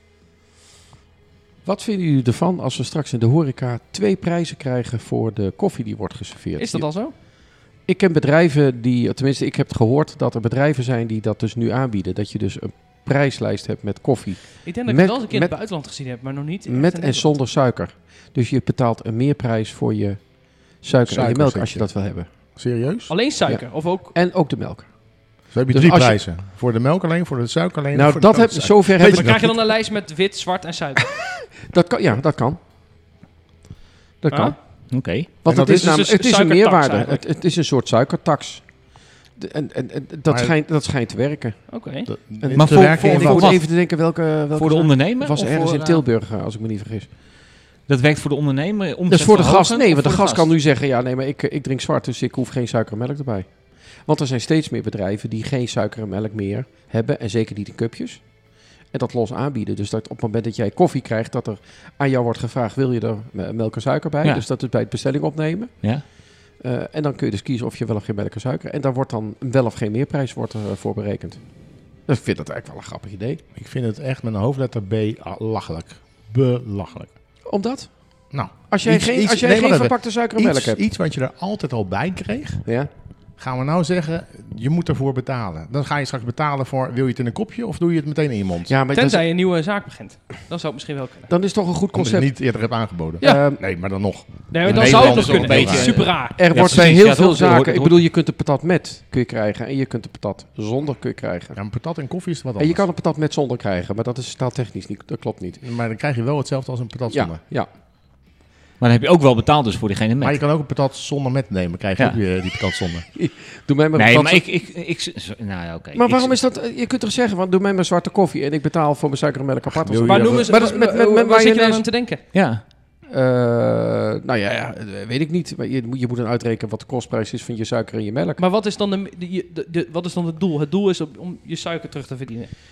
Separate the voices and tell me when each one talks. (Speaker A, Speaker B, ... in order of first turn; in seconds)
Speaker A: 1.6-15.6, 16.7-22.3, 23.4-26.2, 27.9-29.6, 31.6-32.6, 34.2-34.6, 35.4-47.1, 49.1-73.4, 77.5-80.8, 88.7-89.2, 91.3-92.3, 93.2-93.6, 96.3-101.6, 102.6-105.6, 107.1-107.7, 113.1-114.4, 115.9-121.9, 123.1-128.4
Speaker B: 6.6-7.1, 14.6-17.3, 23.1-24.1, 29.0-31.2, 34.3-34.5, 35.5-37.2, 41.7-42.1, 88.9-91.3, 94.5-96.4, 120.0-122.2, 128.4-132.5
Speaker C: 21.1-23.1, 25.5-29.6, 35.5-35.9, 40.3-40.5, 42.0-43.5, 73.5-77.2, 78.3-82.7, 83.4-88.7, 91.9-96.0, 101.5-102.8, 105.6-107.4, 110.2-113.0, 119.7-120.7
Speaker D: 34.9-35.3, 42.5-43.9, 44.5-46.0, 47.9-50.5, 94.6-98.0, 108.8-110.4, 113.9-116.4, 122.3-122.6